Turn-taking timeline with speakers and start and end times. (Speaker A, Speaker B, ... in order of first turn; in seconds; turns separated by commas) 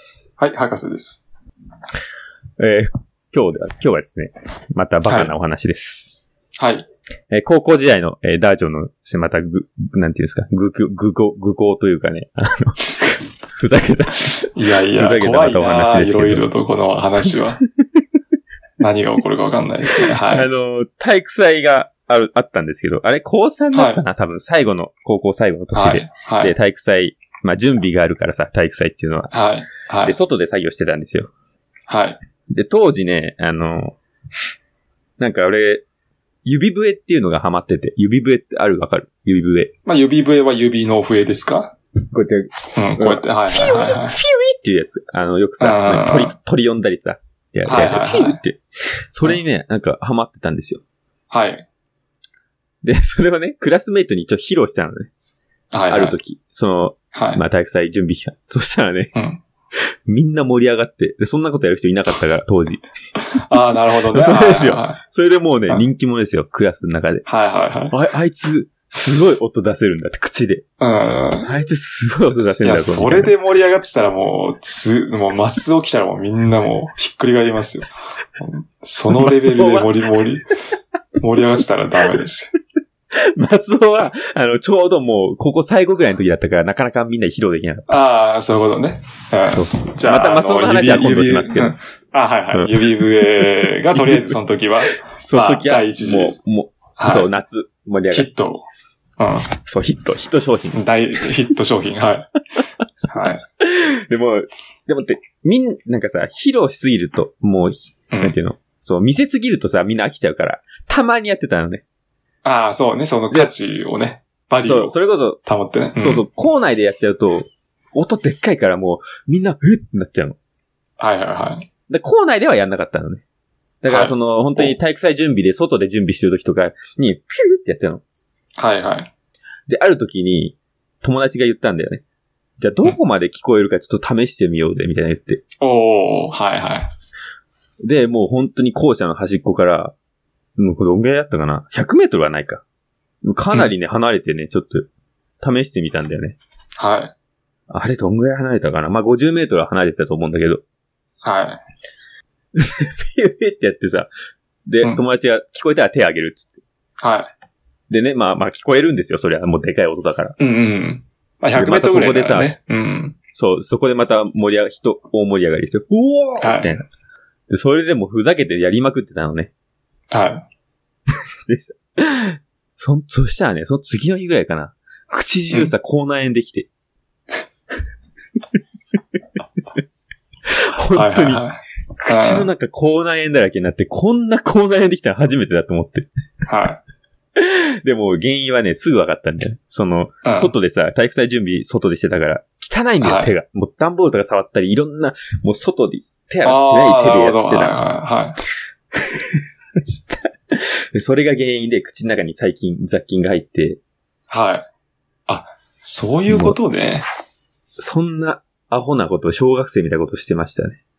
Speaker A: 0.4-1.2, Speaker B: 2.6-6.1, Speaker A: 5.1-5.3, Speaker A: 6.6-6.9, Speaker B: 7.3-16.5, Speaker A: 14.4-17.6, Speaker A: 18.8-20.5, Speaker B: 20.0-29.3, Speaker A: 23.7-24.0, Speaker A: 25.7-26.5, Speaker A: 29.3-30.1, Speaker B: 30.0-31.3, Speaker A: 31.9-32.2, Speaker B: 32.5-34.0, Speaker B: 35.2-35.8, Speaker B: 36.4-39.7, Speaker A: 39.8-41.7, Speaker B: 42.1-50.8, Speaker A: 42.8-44.2, Speaker A: 45.6-46.3, Speaker A: 47.7-48.4, Speaker A: 51.3-51.7, Speaker B: 52.8-55.1, Speaker A: 55.7-56.1, Speaker B: 55.9-59.1, Speaker A: 57.1-57.4, Speaker A: 59.1-59.4, Speaker B: 59.7-62.8, Speaker A: 63.3-65.0, Speaker B: 64.1-67.2, Speaker A: 67.2-67.9, Speaker B: 67.9-70.6, Speaker A: 70.8-71.5, Speaker B: 71.4-73.3, Speaker A: 72.6-80.5, Speaker B: 79.1-79.9, Speaker A: 81.2-82.5, Speaker B: 83.1-87.9, Speaker A: 87.9-96.4, Speaker B: 89.5-91.8, Speaker B: 92.5-94.4, Speaker B: 95.0-98.3, Speaker A: 97.0-97.3, Speaker A: 98.1-98.7, Speaker A: 99.2-99.5, Speaker B: 99.7-100.8, Speaker A: 100.7-102.3, Speaker A: 103.1-103.4, Speaker B: 103.6-111.8, Speaker A: 112.4-116.2, Speaker B: 114.6-115.4, Speaker B: 116.0-120.4, Speaker A: 121.0-121.7, Speaker B: 121.9-123.2, Speaker B: 123.8-128.0, Speaker A: 123.9-124.8, Speaker A: 128.6-129.1, Speaker B: 129.7-132.0, Speaker B: 132.6-135.4, Speaker A: 135.6-136.9, Speaker B: 137.8-139.9, Speaker B: 140.6-142.6, Speaker B: 143.2-144.9, Speaker B: 145.4-146.4, Speaker A: 146.8-147.1, Speaker B: 147.7-150.6, Speaker A: 151.2-151.6, Speaker B: 152.6-154.1, Speaker B: 154.7-156.6, Speaker A: 157.0-157.3, Speaker B: 157.9-160.3, Speaker A: 160.4-163.2, Speaker B: 161.6-162.6, Speaker B: 163.3-166.8, Speaker A: 166.4-166.8, Speaker B: 167.5-169.5, Speaker A: 170.1-170.4, Speaker B: 171.5-176.7, Speaker B: 180.7-181.4, Speaker A: 180.9-182.5, Speaker B: 182.0-186.1, Speaker A: 186.4-186.8, Speaker B: 187.4-197.7, Speaker A: 190.2-190.5, Speaker A: 193.0-193.3, Speaker A: 196.4-198.4, Speaker B: 199.8-203.8, Speaker A: 204.3-204.7, Speaker A: 205.3-207.0, Speaker B: 206.3-206.6, Speaker B: 207.8-210.8